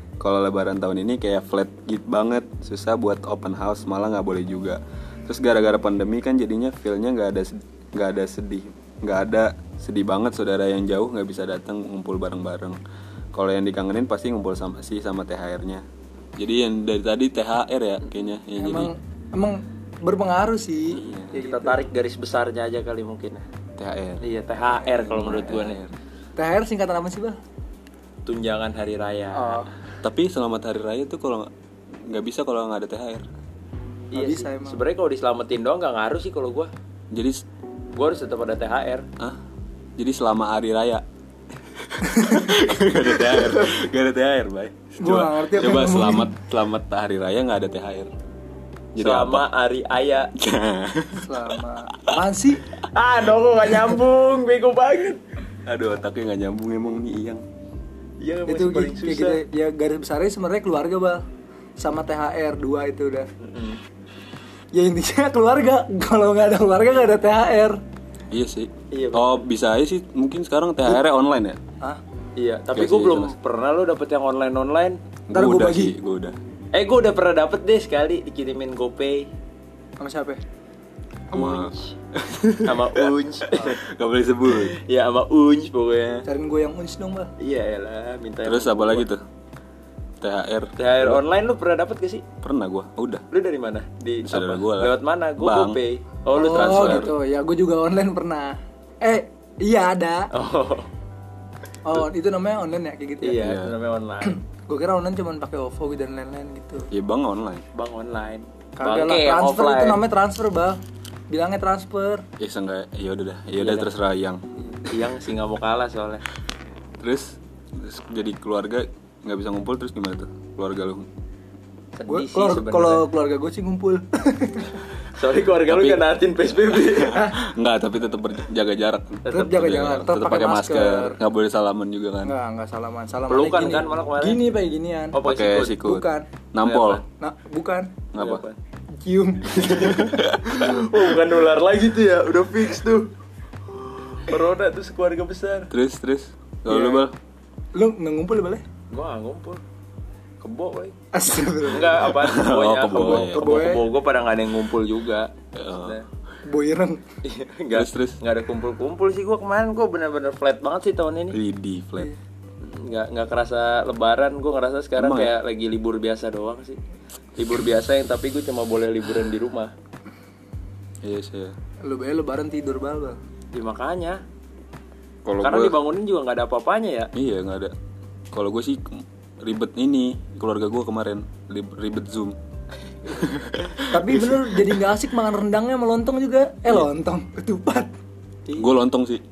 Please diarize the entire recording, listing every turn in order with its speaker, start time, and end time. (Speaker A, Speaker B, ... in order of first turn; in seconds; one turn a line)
Speaker A: 0.2-12.8
Speaker A: 13.3-15.8
Speaker A: 16.4-18.9
Speaker B: 18.6-21.9
Speaker A: 20.9-21.4
Speaker C: 21.4-23.4
Speaker A: 23.8-24.2
Speaker C: 24.2-25.9
Speaker A: 24.8-25.9
Speaker B: 26.4-27.4
Speaker C: 28.3-29.7
Speaker B: 29.3-29.7
Speaker A: 30.0-31.5
Speaker A: 32.1-33.3
Speaker C: 34.1-36.7
Speaker B: 34.1-34.9
Speaker A: 37.1-37.4
Speaker C: 38.0-39.0
Speaker A: 40.0-41.0
Speaker A: 41.8-48.1
Speaker B: 42.0-42.5
Speaker B: 45.0-46.3
Speaker A: 49.0-49.5
Speaker C: 49.0-50.3
Speaker A: 50.4-51.6
Speaker B: 51.1-52.7
Speaker C: 52.8-55.2
Speaker A: 55.7-57.4
Speaker C: 58.2-59.4
Speaker B: 58.5-61.2
Speaker B: 61.8-63.3
Speaker C: 63.4-63.8
Speaker B: 64.7-67.8
Speaker A: 68.3-71.6
Speaker C: 68.9-69.4
Speaker C: 72.4-75.0
Speaker A: 72.7-73.3
Speaker A: 75.3-76.4
Speaker B: 75.3-76.0
Speaker C: 76.7-79.3
Speaker B: 80.0-80.4
Speaker C: 81.3-82.0
Speaker A: 81.3-83.1
Speaker C: 82.6-83.8
Speaker A: 83.7-84.8
Speaker C: 84.5-86.3
Speaker B: 86.2-87.3
Speaker C: 87.4-89.1
Speaker A: 88.4-89.2
Speaker A: 90.2-91.2
Speaker C: 90.8-92.2
Speaker A: 92.4-93.2
Speaker C: 93.3-97.1
Speaker A: 94.2-95.8
Speaker B: 96.3-100.3
Speaker A: 96.4-97.1
Speaker C: 100.3-100.9
Speaker B: 101.8-103.4
Speaker C: 103.2-104.4
Speaker A: 103.3-103.8
Speaker B: 104.2-106.9
Speaker A: 106.9-107.6
Speaker C: 107.7-110.0
Speaker B: 108.8-110.8
Speaker B: 111.3-112.2
Speaker A: 112.4-114.4
Speaker C: 113.6-113.9
Speaker C: 114.7-116.2
Speaker A: 117.0-121.0
Speaker C: 122.0-123.1
Speaker B: 122.1-124.8
Speaker C: 125.2-127.2
Speaker A: 125.7-126.1
Speaker A: 126.6-132.3
Speaker B: 127.0-127.4
Speaker C: 129.3-129.6
Speaker B: 129.3-131.2
Speaker B: 132.2-135.2
Speaker C: 133.3-134.4
Speaker C: 135.1-135.8
Speaker A: 135.2-137.0
Speaker B: 135.8-136.3
Speaker C: 136.6-137.0
Speaker B: 137.2-137.9
Speaker A: 138.1-138.4
Speaker C: 138.2-138.6
Speaker B: 139.0-140.4
Speaker C: 139.6-143.1
Speaker A: 139.6-140.7
Speaker C: 143.7-145.7
Speaker A: 145.7-147.2
Speaker B: 146.7-147.1
Speaker B: 147.8-148.6
Speaker C: 148.9-149.6
Speaker C: 150.4-150.9
Speaker B: 151.1-152.1
Speaker C: 151.7-156.1
Speaker A: 152.0-153.8
Speaker B: 152.9-153.9
Speaker A: 155.6-156.0
Speaker B: 156.5-157.0
Speaker C: 157.2-161.4
Speaker A: 157.7-158.2
Speaker A: 161.3-162.1
Speaker C: 162.6-166.8
Speaker A: 165.0-165.3
Speaker C: 167.4-169.7
Speaker A: 171.0-171.5
Speaker B: 171.9-173.2
Speaker C: 173.5-174.2
Speaker A: 175.2-175.8
Speaker C: 175.4-177.1
Speaker A: 177.1-177.7
Speaker A: 178.3-182.4
Speaker A: 183.1-184.3
Speaker B: 183.9-187.9
Speaker A: 188.5-189.2